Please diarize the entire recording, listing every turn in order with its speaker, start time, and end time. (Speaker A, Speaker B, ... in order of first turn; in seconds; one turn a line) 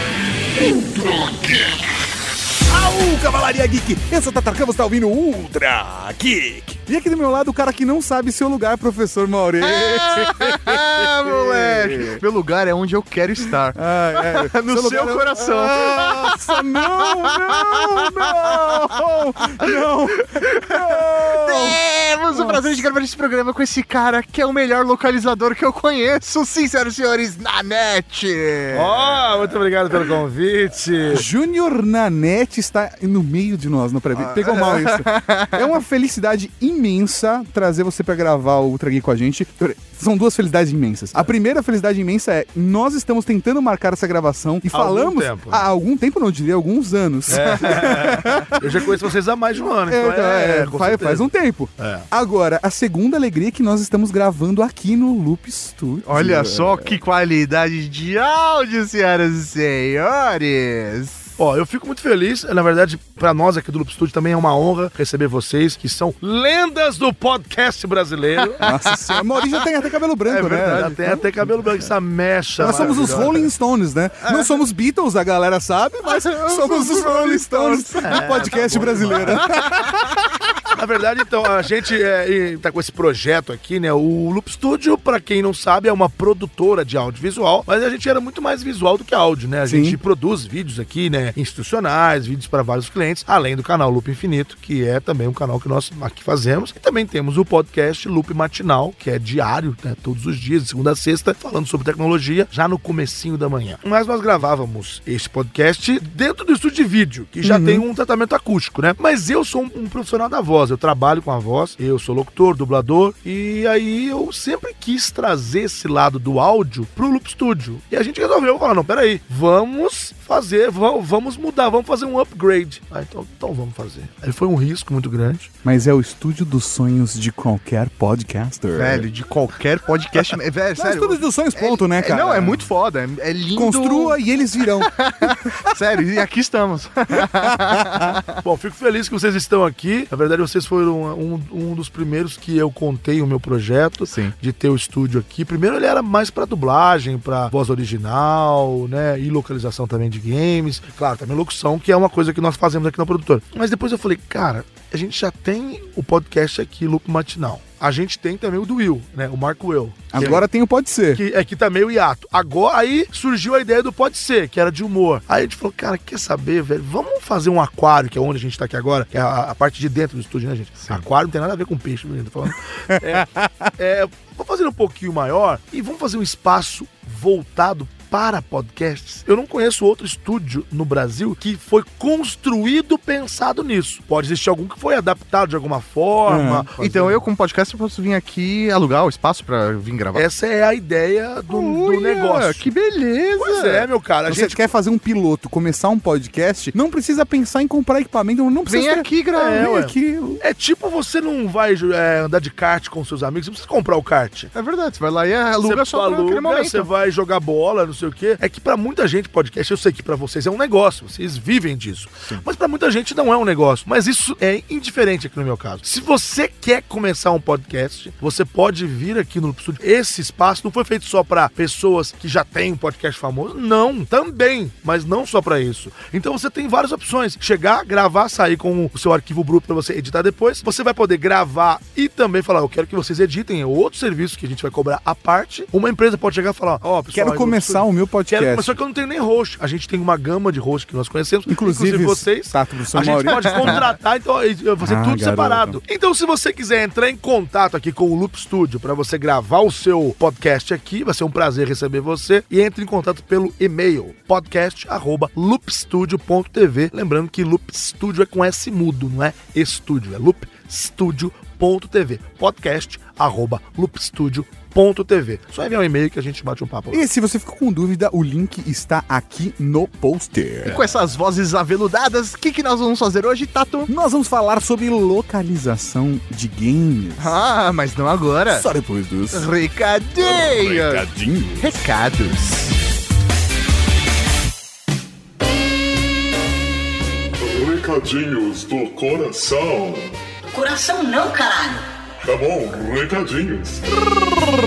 Speaker A: 0.6-1.3
Speaker B: 2.7-12.2
Speaker C: 9.7-19.0
Speaker B: 13.7-21.8
Speaker C: 19.6-29.0
Speaker B: 22.3-22.8
Speaker D: 28.7-31.2
Speaker B: 31.1-48.6
Speaker C: 34.2-35.7
Speaker D: 44.7-45.7
Speaker C: 47.3-48.4
Speaker D: 47.3-52.1
Speaker B: 49.9-57.0
Speaker C: 56.1-61.2
Speaker D: 61.4-68.6
Speaker B: 68.6-71.5
Speaker D: 70.3-73.5
Speaker B: 72.6-80.2
Speaker C: 74.2-74.5
Speaker C: 76.0-78.5
Speaker D: 78.0-79.5
Speaker C: 79.1-79.5
Speaker D: 80.7-125.5
Speaker B: 89.7-90.0
Speaker B: 107.4-107.8
Speaker B: 125.6-129.1
Speaker C: 128.7-134.2
Speaker B: 130.1-132.7
Speaker B: 133.6-135.5
Speaker C: 134.8-138.2
Speaker B: 137.8-138.1
Speaker D: 138.4-160.4
Speaker C: 144.0-144.3
Speaker B: 160.1-161.2
Speaker D: 161.1-187.2
Speaker B: 173.1-173.7
Speaker B: 186.2-186.7
Speaker C: 186.8-190.2
Speaker D: 190.1-192.7
Speaker C: 191.5-193.9
Speaker D: 193.4-194.6
Speaker B: 194.3-200.4
Speaker C: 198.7-199.7
Speaker D: 199.4-204.5
Speaker C: 204.5-206.9
Speaker D: 205.6-267.1
Speaker B: 237.1-238.8
Speaker B: 241.5-243.8
Speaker B: 244.8-245.8
Speaker B: 266.9-270.8
Speaker C: 270.6-273.9
Speaker B: 273.9-277.4
Speaker C: 277.2-278.7
Speaker B: 278.5-279.5
Speaker C: 279.3-282.8
Speaker B: 280.2-281.7
Speaker E: 287.4-290.1
Speaker A: 290.5-291.8
Speaker E: 292.2-293.8